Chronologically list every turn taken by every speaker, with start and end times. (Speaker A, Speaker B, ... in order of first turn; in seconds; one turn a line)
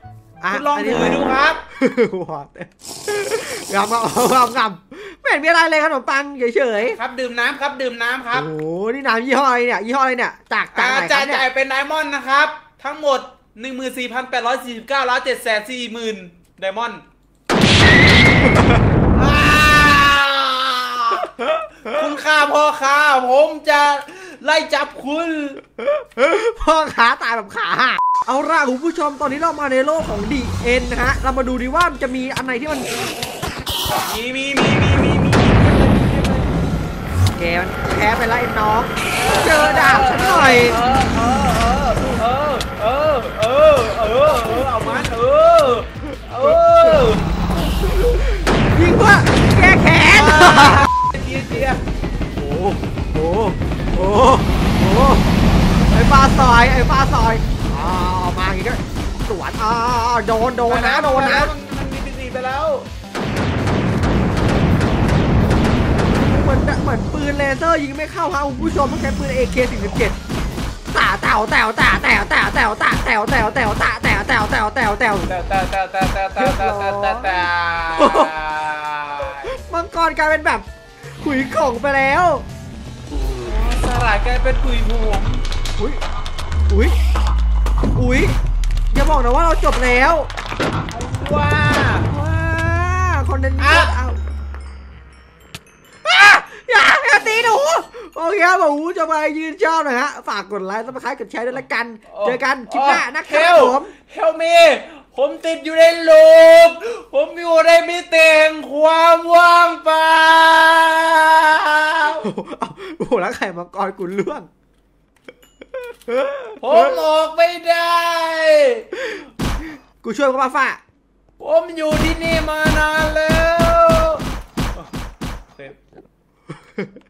Speaker A: 0.4-7.0
Speaker B: 0.5-1.6
Speaker B: 6.8-8.5
Speaker A: 8.3-11.4
Speaker B: 10.7-17.0
Speaker A: 18.5-18.8
Speaker B: 19.1-25.6
Speaker A: 25.8-33.0
Speaker B: 33.9-36.6
Speaker A: 37.3-40.8
Speaker B: 39.1-47.2
Speaker A: 47.6-50.9
Speaker B: 50.1-51.8
Speaker A: 52.4-55.3
Speaker A: 55.9-61.5
Speaker B: 60.6-62.9
Speaker A: 66.1-70.2
Speaker A: 70.9-75.3
Speaker B: 75.3-79.5
Speaker A: 76.4-77.3
Speaker A: 77.9-78.3
Speaker A: 79.4-82.4
Speaker B: 83.4-85.4
Speaker A: 86.7-87.0
Speaker A: 87.9-88.3
Speaker A: 88.9-90.3
Speaker B: 90.9-92.0
Speaker A: 92.1-94.2
Speaker B: 93.6-93.9
Speaker A: 96.0-103.9
Speaker B: 102.1-112.3
Speaker A: 112.2-114.5
Speaker A: 115.9-117.0
Speaker B: 116.6-118.9
Speaker A: 120.0-120.8
Speaker B: 121.4-124.2